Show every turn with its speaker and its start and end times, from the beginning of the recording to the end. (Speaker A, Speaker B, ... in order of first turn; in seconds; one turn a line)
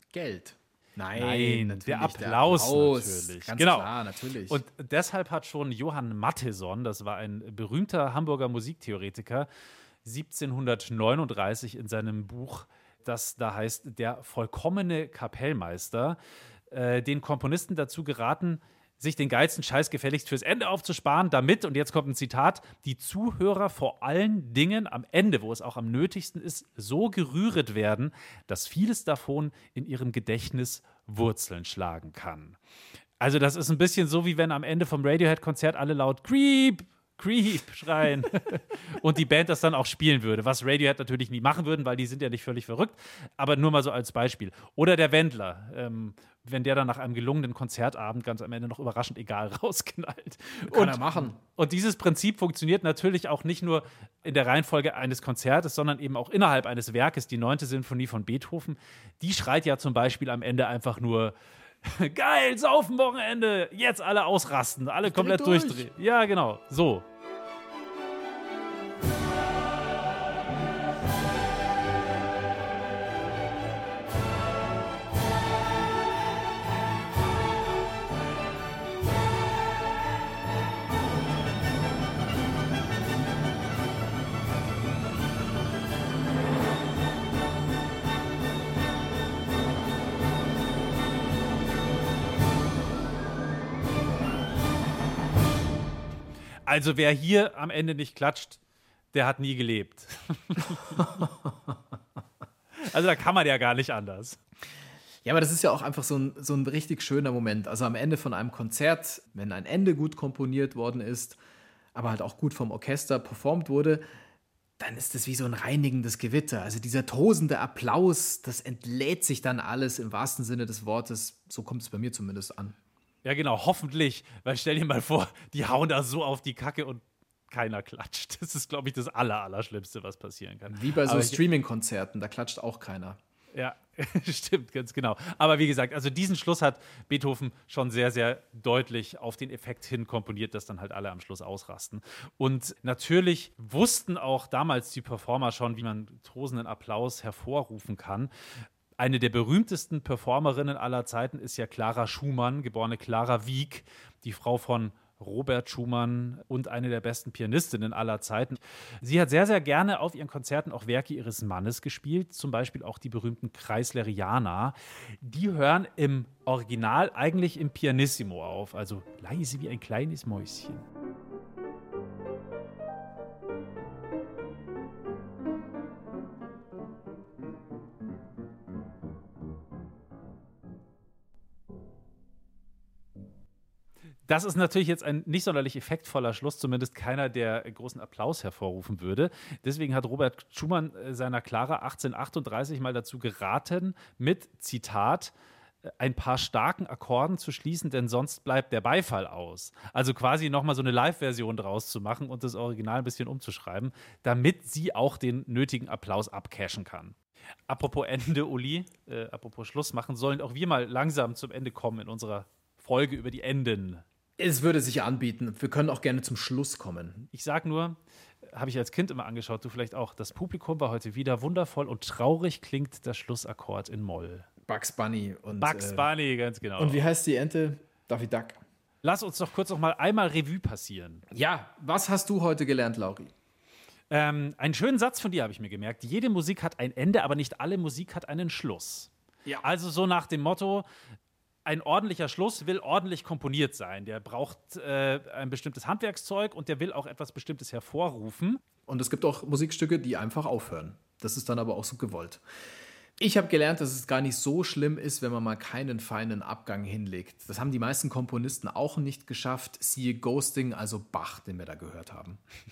Speaker A: 0.1-4.6
Speaker B: 1.1-3.9
Speaker B: 4.5-9.5
Speaker B: 10.1-16.2
Speaker B: 16.7-32.6
Speaker B: 33.2-67.0
Speaker A: 50.7-51.4
Speaker A: 65.0-65.9
Speaker B: 96.7-98.6
Speaker B: 99.1-101.3
Speaker A: 100.9-101.8
Speaker B: 102.8-104.4
Speaker A: 105.2-111.4
Speaker A: 112.0-114.0
Speaker A: 114.8-122.8
Speaker B: 123.2-131.4
Speaker A: 130.7-133.2
Speaker B: 133.6-148.3
Speaker B: 149.0-170.8
Speaker B: 184.3-195.3
Speaker B: 195.9-207.2
Speaker B: 207.7-214.0
Speaker A: 214.4-217.3
Speaker B: 217.3-218.0
Speaker B: 218.5-224.5
Speaker A: 224.7-226.1
Speaker B: 225.6-227.1
Speaker A: 226.8-228.6
Speaker B: 229.0-231.2
Speaker A: 231.3-233.3
Speaker B: 234.1-239.1
Speaker B: 239.6-240.8
Speaker B: 241.7-248.6
Speaker A: 248.9-252.4
Speaker A: 253.2-262.4